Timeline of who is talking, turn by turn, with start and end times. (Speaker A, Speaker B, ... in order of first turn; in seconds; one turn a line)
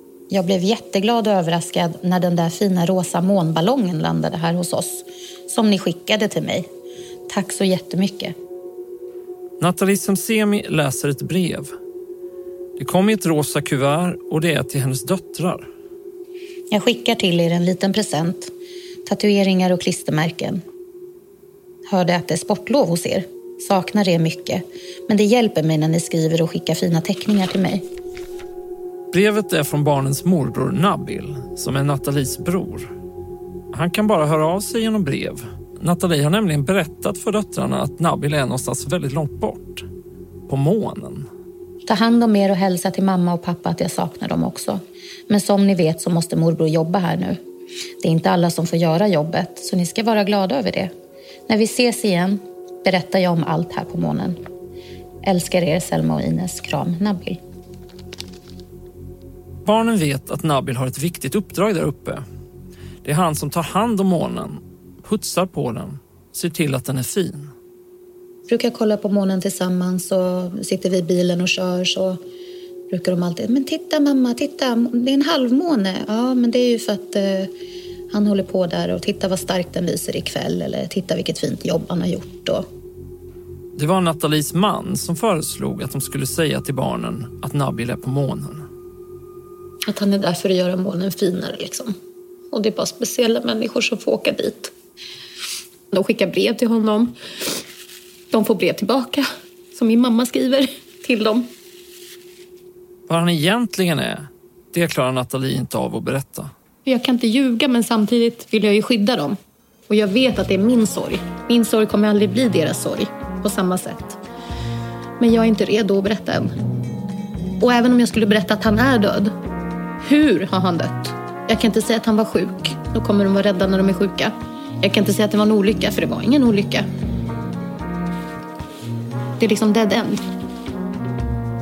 Speaker A: 0.3-6.7
Speaker A: 7.3-8.3
Speaker B: 9.6-11.7
Speaker B: 12.8-15.7
Speaker A: 16.7-18.5
Speaker A: 19.1-20.6
Speaker A: 21.9-27.8
Speaker B: 29.1-32.9
Speaker B: 33.7-39.9
Speaker B: 40.5-41.3
Speaker A: 41.9-47.4
Speaker A: 48.0-50.9
Speaker A: 51.5-54.4
Speaker A: 55.2-57.4
Speaker B: 59.6-62.2
Speaker B: 63.0-67.5
Speaker A: 68.5-72.2
Speaker A: 72.9-77.5
Speaker A: 78.1-82.7
Speaker B: 83.8-88.7
Speaker A: 89.9-91.9
Speaker A: 92.5-94.7
Speaker A: 95.9-97.6
Speaker A: 98.3-101.5
Speaker B: 103.1-106.5
Speaker A: 106.8-109.4
Speaker A: 109.9-114.2
Speaker A: 115.2-116.5
Speaker A: 117.6-119.3
Speaker A: 120.0-126.9
Speaker A: 129.4-130.2